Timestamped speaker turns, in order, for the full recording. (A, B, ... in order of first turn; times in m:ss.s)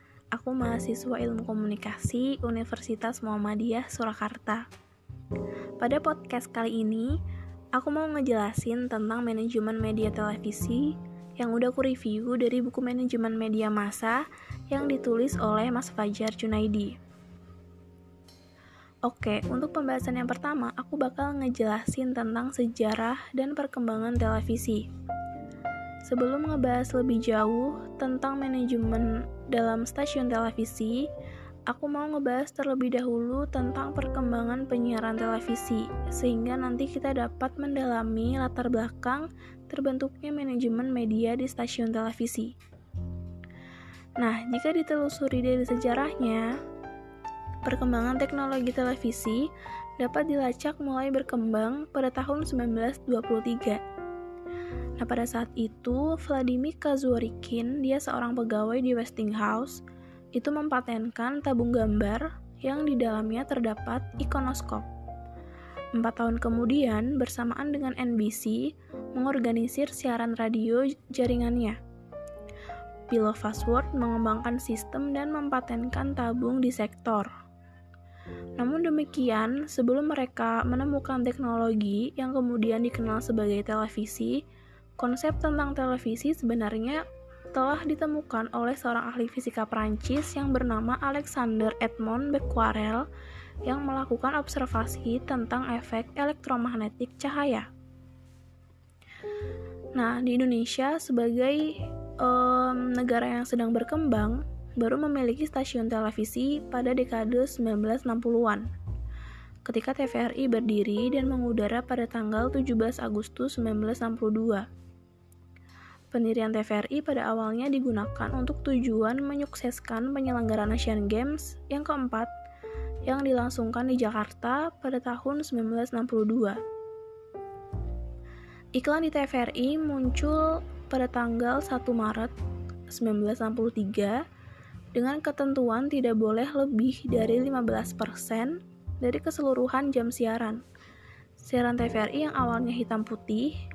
0:00.3-0:04.7 A
0:05.8-0:07.2 A
0:07.8-0:17.0 A
0:19.1-0:24.9 A
0:26.1-0:31.1 A
0:31.7-0:42.5 A
0:44.2-0:46.6 A
0:47.6-0:53.8 A
0:55.0-0:59.8 A
1:00.3-1:04.9 A
1:06.0-1:11.8 A
1:13.1-1:17.3 A
1:18.6-1:24.4 A
1:25.0-1:33.1 A
1:33.7-1:37.7 A
1:40.0-1:48.7 A
1:49.7-1:54.7 A
1:56.1-2:02.3 A
2:03.0-2:06.6 A
2:08.8-2:12.3 A
2:12.9-2:14.2 A
2:15.0-2:20.6 A
2:21.4-2:23.5 A